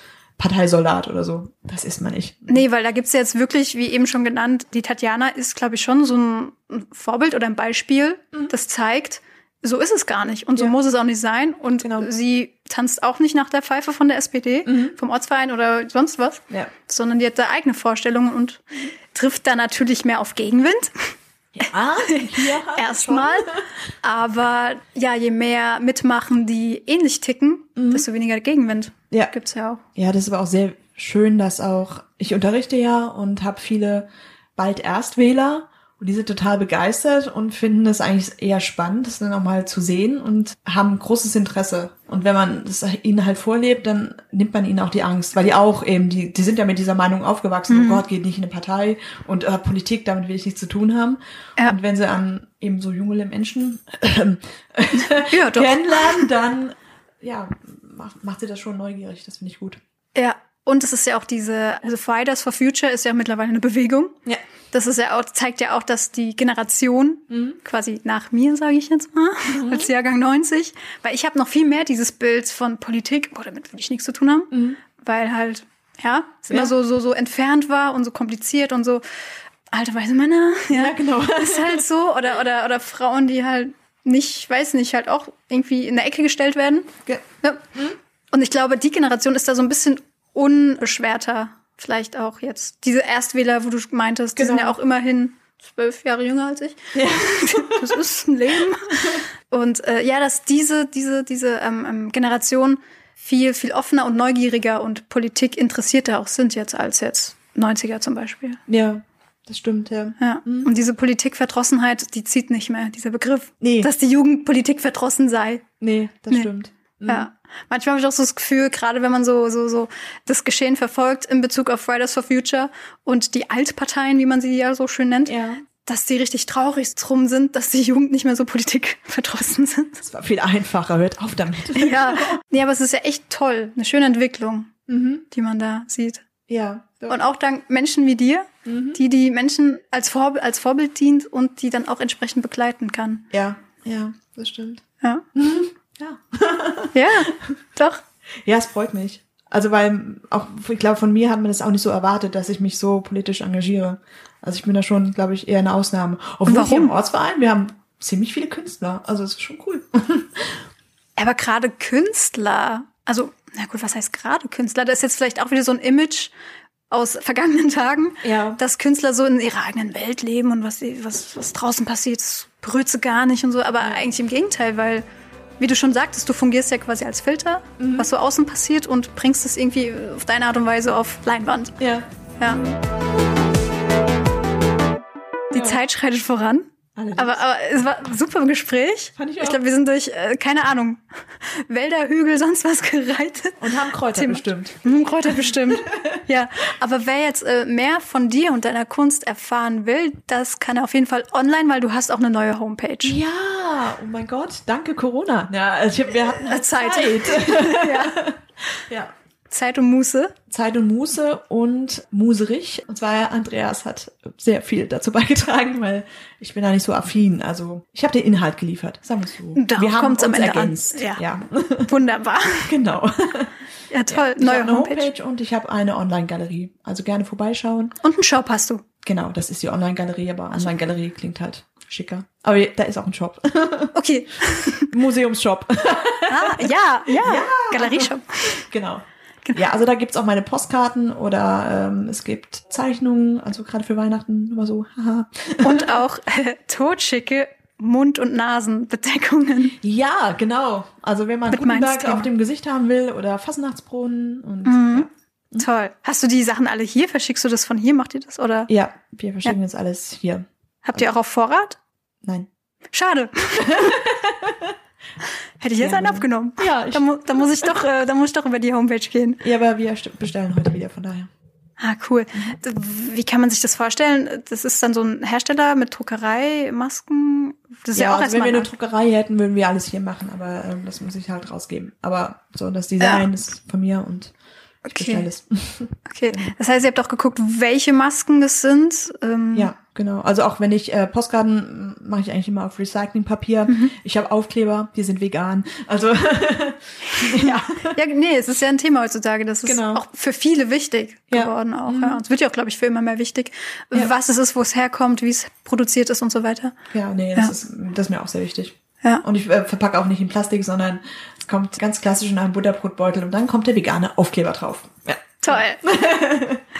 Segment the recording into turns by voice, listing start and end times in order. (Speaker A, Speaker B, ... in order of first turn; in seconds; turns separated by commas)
Speaker A: 0.4-2.6, Speaker B: 2.5-21.1, Speaker A: 11.8-12.1, Speaker A: 14.7-15.0, Speaker A: 21.6-23.7, Speaker B: 22.0-29.8, Speaker A: 27.8-28.1, Speaker A: 29.9-59.8, Speaker B: 47.7-48.0, Speaker B: 55.0-56.3, Speaker B: 60.1-64.2, Speaker B: 64.7-79.0, Speaker A: 67.3-67.6, Speaker A: 69.5-69.9, Speaker A: 74.5-74.8, Speaker B: 79.7-87.6, Speaker A: 80.7-81.8, Speaker B: 88.3-108.6, Speaker A: 94.4-94.8, Speaker A: 96.9-98.0, Speaker A: 108.7-110.7, Speaker B: 110.2-115.7, Speaker A: 113.6-113.9, Speaker A: 115.8-117.3, Speaker B: 117.1-130.0, Speaker A: 125.3-125.6, Speaker A: 130.0-132.4, Speaker B: 131.8-134.7, Speaker A: 134.9-135.2, Speaker B: 135.3-136.2, Speaker A: 136.5-137.2, Speaker B: 137.1-143.3, Speaker A: 138.7-139.0, Speaker A: 143.3-144.8, Speaker A: 145.3-147.4, Speaker B: 146.9-148.0, Speaker A: 148.4-160.6, Speaker B: 156.5-156.9, Speaker B: 161.2-166.3, Speaker B: 166.9-175.1, Speaker A: 168.2-168.6, Speaker A: 173.8-174.1, Speaker B: 175.6-181.8, Speaker A: 177.8-178.1, Speaker A: 181.8-182.8, Speaker B: 185.5-193.6, Speaker A: 185.5-185.8, Speaker A: 187.0-187.4, Speaker A: 189.2-189.6, Speaker A: 193.6-196.2, Speaker B: 194.1-203.2, Speaker A: 203.0-209.1, Speaker B: 206.4-208.2, Speaker B: 209.5-210.3, Speaker A: 210.5-221.9, Speaker B: 219.6-221.2, Speaker B: 221.9-222.7, Speaker A: 222.7-223.5, Speaker B: 223.9-225.1, Speaker A: 224.1-227.9, Speaker B: 228.0-228.8, Speaker A: 229.0-233.9, Speaker B: 233.9-234.9, Speaker A: 234.8-245.9, Speaker B: 236.3-238.7, Speaker B: 245.6-249.8, Speaker A: 249.8-255.7, Speaker B: 251.5-252.3, Speaker B: 254.7-258.7, Speaker A: 258.7-261.1, Speaker B: 260.9-261.8, Speaker A: 262.2-262.5, Speaker B: 262.9-264.0, Speaker A: 263.6-264.8, Speaker B: 265.6-269.4, Speaker A: 265.8-267.8, Speaker A: 269.4-271.3, Speaker B: 271.8-278.7, Speaker A: 277.9-284.3, Speaker B: 283.0-283.3, Speaker B: 284.9-285.3, Speaker A: 284.9-286.5, Speaker B: 286.1-289.7, Speaker A: 289.5-298.0, Speaker B: 293.7-293.9, Speaker B: 297.1-306.8, Speaker A: 299.6-300.0, Speaker A: 301.3-302.2, Speaker A: 306.9-316.6, Speaker B: 315.4-315.8